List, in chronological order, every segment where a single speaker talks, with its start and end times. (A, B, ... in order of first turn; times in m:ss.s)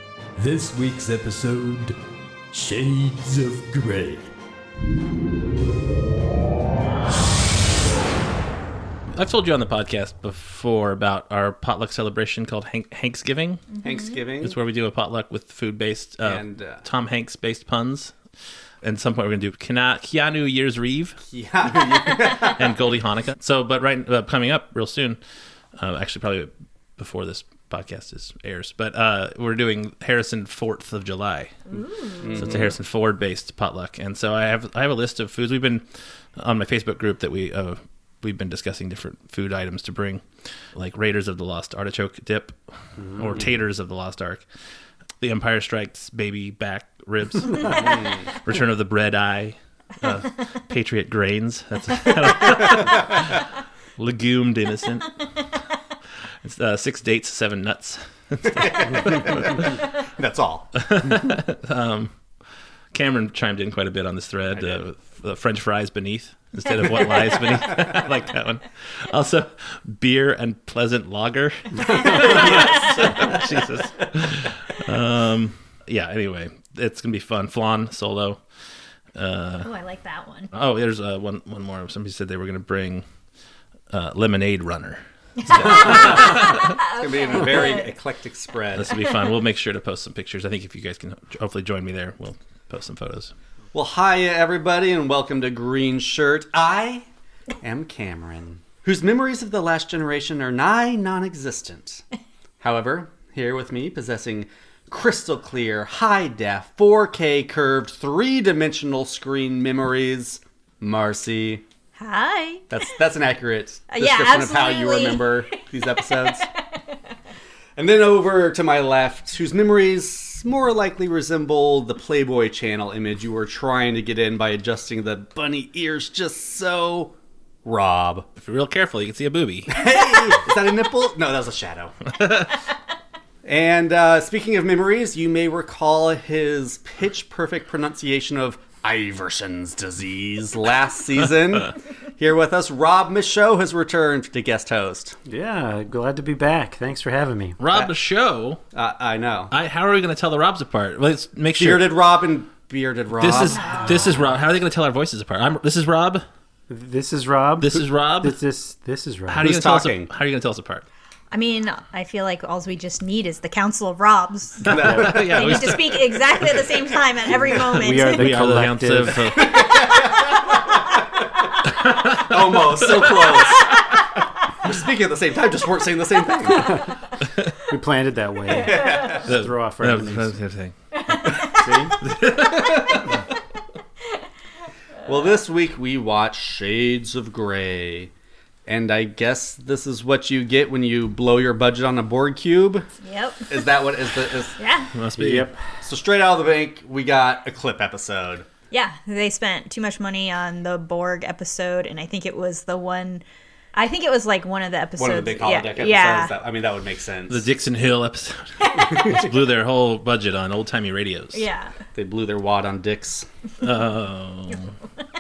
0:00.4-0:02.0 A
0:02.5-0:04.3 A
0:09.2-0:13.7 B
0:13.7-0:14.2 C
0:13.8-0:14.6 D
0:14.4-0:18.1 B
0:16.2-0:16.8 D
0:18.8-0:21.2 B
0:21.2-0:22.7 D
0:22.4-0:25.2 B
0:25.8-0:31.6 B
0:31.7-0:32.4 C
0:32.2-0:32.7 D
0:32.4-0:35.8 B
0:36.4-0:40.2 B
0:40.8-0:42.6 B
0:43.0-0:43.3 E
0:43.2-0:44.4 B
0:45.2-0:47.9 B
0:47.7-0:48.3 D
0:48.4-0:53.4 B
0:52.6-0:53.1 D
0:54.0-0:55.2 B
0:56.4-0:59.8 B
0:58.4-1:01.2 D
1:00.8-1:02.1 B
1:02.9-1:18.4 B
1:04.5-1:04.8 D
1:11.9-1:13.4 C
1:11.9-1:13.4 D
1:19.2-1:19.7 B
1:19.6-1:20.5 C
1:20.5-1:23.0 B
1:23.9-1:26.8 B
1:25.5-1:28.0 C
1:25.6-1:29.0 D
1:28.7-1:33.3 B
1:33.7-1:37.1 D
1:37.6-1:42.0 D
1:42.6-1:51.6 D
1:52.0-1:52.6 C
1:52.7-1:56.5 D
1:53.9-1:56.4 C
1:57.8-2:07.1 D
2:07.6-2:08.3 D
2:08.4-2:09.9 B
2:09.7-2:12.0 D
2:12.2-2:12.5 B
2:13.4-2:25.2 D
2:25.3-2:27.6 E
2:27.6-2:28.6 B
2:28.7-2:29.5 D
2:29.5-2:32.0 B
2:31.6-2:33.8 D
2:33.2-2:36.2 B
2:33.5-2:34.2 C
2:36.7-2:39.4 E
2:37.6-2:38.4 B
2:39.3-2:40.8 B
2:39.4-2:40.1 D
2:41.3-2:44.8 C
2:44.6-2:45.8 D
2:44.6-2:46.6 B
2:45.3-2:48.3 C
2:47.3-2:47.6 D
2:47.8-2:49.2 E
2:47.9-2:49.7 B
2:49.3-2:51.4 D
2:51.7-2:53.4 B
2:52.1-2:53.7 D
2:54.6-2:56.8 D
2:57.7-3:00.4 E
2:58.5-2:59.3 D
2:59.1-3:00.7 B
3:01.6-3:02.0 E
3:02.0-3:03.0 B
3:05.0-3:08.1 D
3:08.7-3:12.9 D
3:13.0-3:13.6 C
3:13.5-3:14.6 D
3:14.6-3:14.9 C
3:14.9-3:15.5 B
3:15.2-3:15.6 E
3:15.8-3:18.5 D
3:18.7-3:26.3 C
3:25.0-3:27.5 D
3:27.3-3:31.4 B
3:28.7-3:29.3 C
3:31.3-3:31.8 C
3:32.0-3:33.3 D
3:33.6-3:34.7 B